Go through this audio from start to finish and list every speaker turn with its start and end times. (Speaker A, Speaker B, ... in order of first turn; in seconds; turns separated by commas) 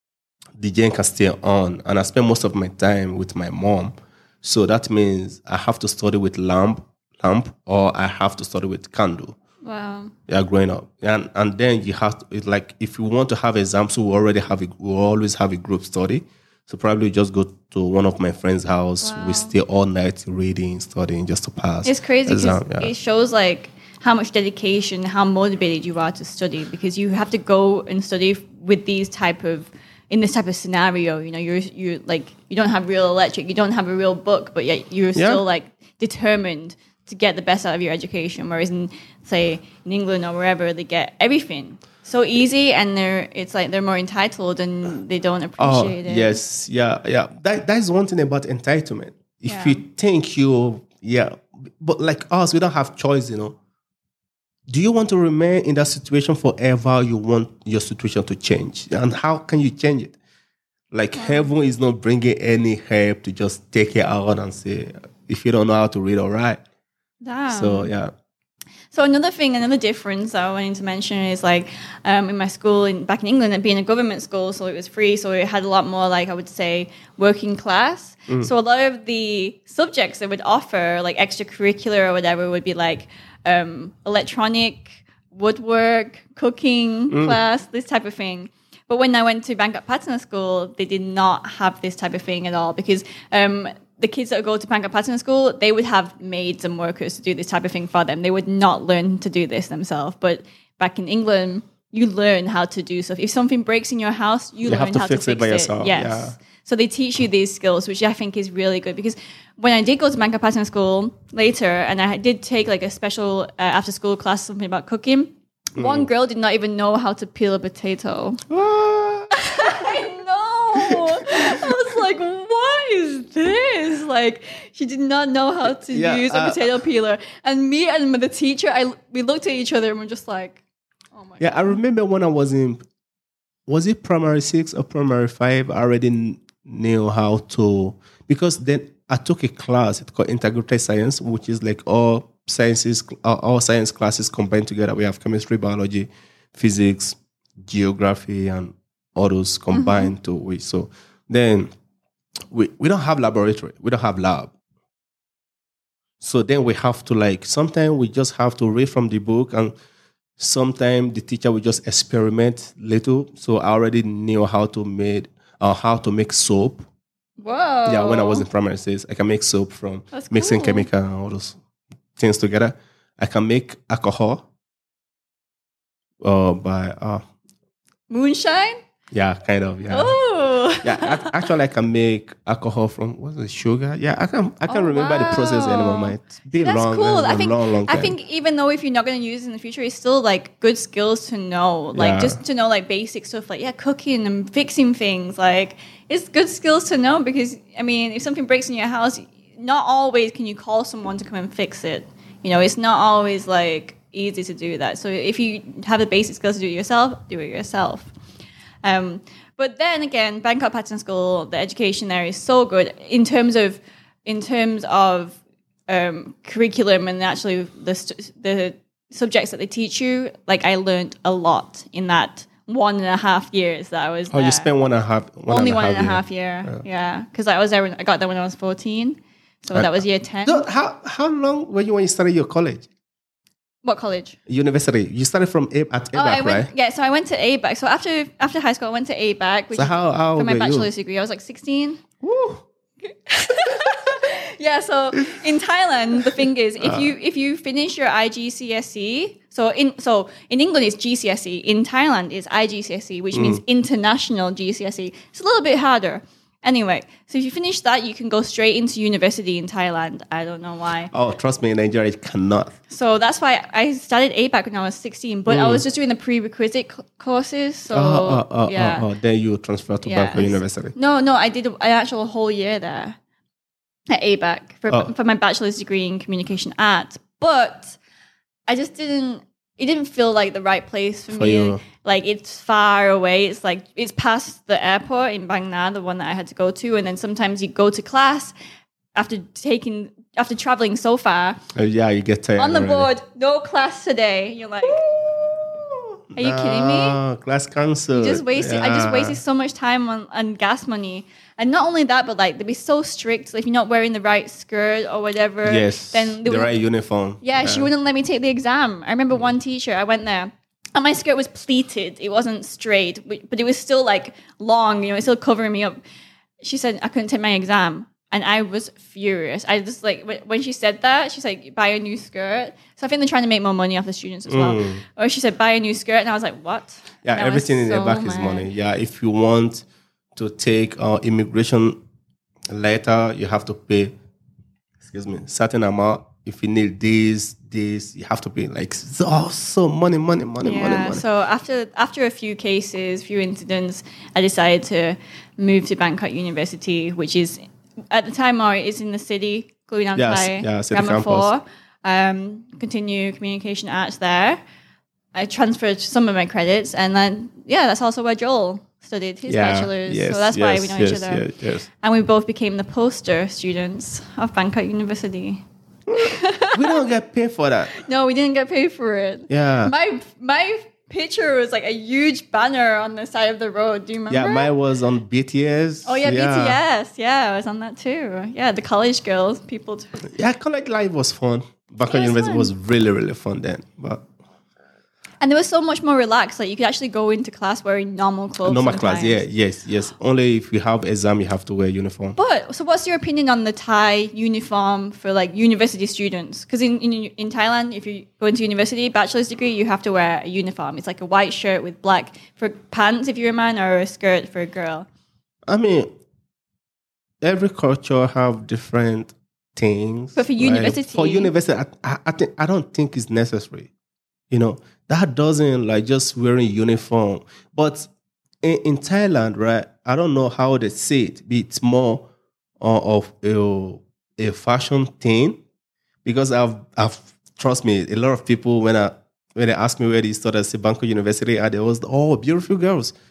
Speaker A: 0.6-9.3, Speaker B: 9.6-10.1, Speaker A: 10.3-22.9, Speaker B: 19.0-19.5, Speaker B: 21.8-46.4, Speaker A: 35.1-35.4, Speaker A: 45.6-53.6, Speaker B: 49.5-49.8, Speaker A: 54.7-60.1, Speaker A: 60.9-66.6, Speaker B: 61.1-61.5, Speaker B: 67.2-67.9, Speaker A: 67.5-68.1, Speaker B: 68.9-118.4, Speaker A: 87.1-87.4, Speaker A: 104.6-106.4, Speaker A: 115.8-116.1, Speaker A: 118.5-119.9, Speaker B: 119.3-130.6, Speaker A: 120.8-121.8, Speaker A: 125.6-126.7, Speaker B: 131.2-131.8, Speaker A: 131.4-132.8, Speaker A: 133.7-151.7, Speaker B: 149.7-150.1, Speaker A: 152.5-154.5, Speaker A: 156.2-159.7, Speaker A: 160.4-166.9, Speaker B: 167.4-168.4, Speaker A: 167.8-171.6, Speaker B: 170.1-170.9, Speaker A: 172.2-174.4, Speaker A: 176.2-177.2, Speaker B: 178.1-178.8, Speaker A: 179.1-180.2, Speaker B: 179.9-181.4, Speaker A: 180.8-188.1, Speaker B: 184.7-208.1, Speaker A: 191.9-192.4, Speaker B: 208.8-215.4, Speaker B: 215.9-224.7, Speaker A: 224.3-226.8, Speaker B: 225.5-230.7, Speaker A: 229.7-232.9, Speaker B: 233.8-234.4, Speaker A: 234.5-236.7, Speaker B: 236.1-242.0, Speaker A: 239.7-240.9, Speaker A: 242.2-242.6, Speaker B: 243.1-261.1, Speaker A: 246.2-247.1, Speaker A: 253.3-253.6, Speaker A: 261.1-262.7, Speaker B: 262.9-269.1, Speaker A: 265.5-265.8, Speaker A: 267.9-270.9, Speaker B: 270.0-273.2, Speaker B: 274.1-278.0, Speaker B: 278.7-288.5, Speaker A: 281.3-281.8, Speaker B: 289.1-291.6, Speaker A: 291.7-293.1, Speaker B: 292.6-295.0, Speaker A: 294.9-299.4, Speaker B: 296.4-297.2, Speaker B: 298.1-306.8, Speaker A: 305.6-307.9, Speaker B: 307.4-316.0, Speaker B: 316.6-328.7, Speaker A: 324.5-325.0, Speaker A: 327.2-332.0, Speaker A: 332.7-334.1, Speaker A: 335.0-341.2, Speaker B: 340.6-354.6, Speaker A: 350.1-351.5, Speaker B: 355.3-361.4, Speaker A: 359.5-361.9, Speaker B: 362.0-365.6, Speaker A: 366.1-368.0, Speaker B: 366.1-367.0, Speaker B: 367.9-374.7, Speaker A: 369.5-369.9, Speaker A: 374.3-376.8, Speaker B: 376.0-380.2, Speaker A: 380.3-384.2, Speaker B: 382.1-382.7, Speaker B: 385.4-389.4, Speaker A: 388.6-392.4, Speaker B: 392.4-405.1, Speaker A: 405.7-406.1, Speaker A: 407.4-413.9, Speaker B: 410.3-411.5, Speaker A: 414.5-418.1, Speaker A: 418.6-422.2, Speaker A: 422.8-425.6, Speaker A: 426.2-433.1